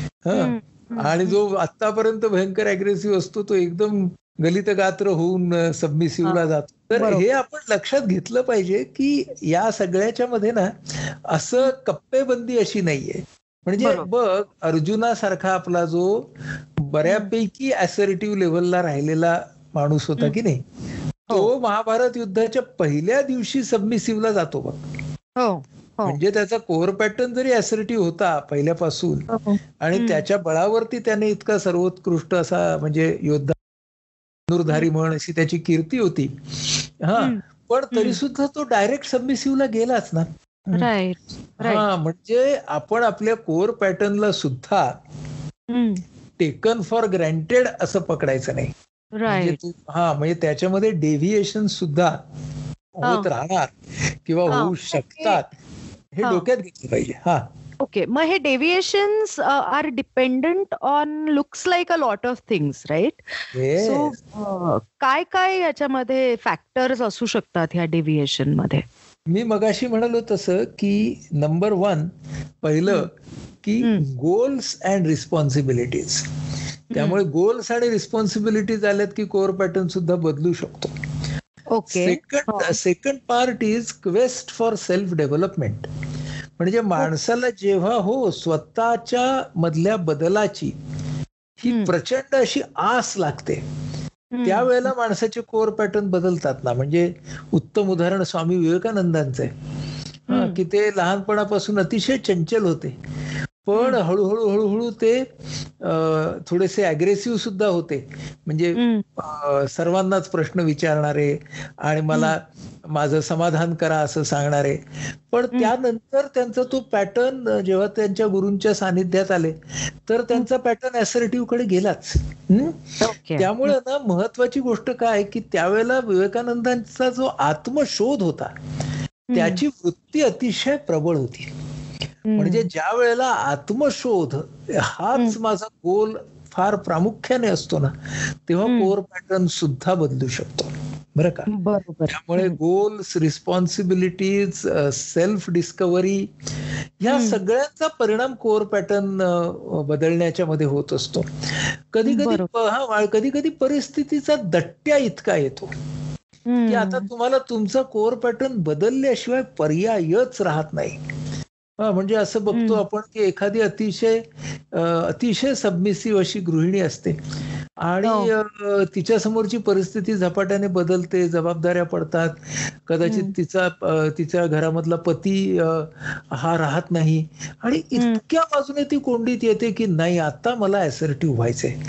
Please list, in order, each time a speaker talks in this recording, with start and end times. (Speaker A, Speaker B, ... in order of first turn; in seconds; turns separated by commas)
Speaker A: 0.2-20.6, Speaker B: 0.3-1.4, Speaker B: 7.0-7.2, Speaker B: 13.8-14.1, Speaker A: 21.3-24.8, Speaker B: 25.4-26.2, Speaker A: 26.0-29.3, Speaker B: 29.3-30.2, Speaker A: 29.8-33.5, Speaker A: 34.5-36.3, Speaker A: 37.0-40.9, Speaker B: 37.9-38.2, Speaker B: 40.7-41.8, Speaker A: 41.6-44.9, Speaker B: 45.7-46.0, Speaker A: 46.4-48.7, Speaker B: 49.1-49.6, Speaker A: 49.3-52.1, Speaker A: 53.0-55.5, Speaker B: 54.5-55.4, Speaker A: 56.1-57.4, Speaker B: 57.8-63.2, Speaker A: 63.5-64.2, Speaker B: 63.8-68.8, Speaker A: 69.3-72.1, Speaker A: 72.6-73.1, Speaker A: 73.6-76.2, Speaker B: 76.9-77.2, Speaker A: 76.9-80.9, Speaker B: 81.7-82.8, Speaker A: 81.9-85.9, Speaker A: 86.6-90.7, Speaker A: 91.6-93.6, Speaker B: 91.7-91.9, Speaker B: 94.3-94.9, Speaker A: 94.4-99.5, Speaker A: 100.3-102.9, Speaker B: 100.3-100.6, Speaker A: 103.7-105.2, Speaker A: 105.8-119.5, Speaker B: 108.8-109.0, Speaker A: 120.1-128.5, Speaker B: 123.0-123.7, Speaker B: 129.3-129.6, Speaker A: 129.3-131.5, Speaker B: 132.3-132.7, Speaker A: 132.4-137.9, Speaker A: 138.4-141.5, Speaker B: 138.7-138.9, Speaker B: 141.5-142.6, Speaker A: 142.1-146.3, Speaker A: 147.0-151.2, Speaker B: 147.1-147.4, Speaker A: 151.9-155.7, Speaker B: 152.1-152.5, Speaker B: 156.5-157.1, Speaker A: 156.7-161.0, Speaker A: 161.8-167.2, Speaker B: 162.5-162.8, Speaker A: 167.8-181.7, Speaker B: 168.0-168.3, Speaker B: 173.1-173.3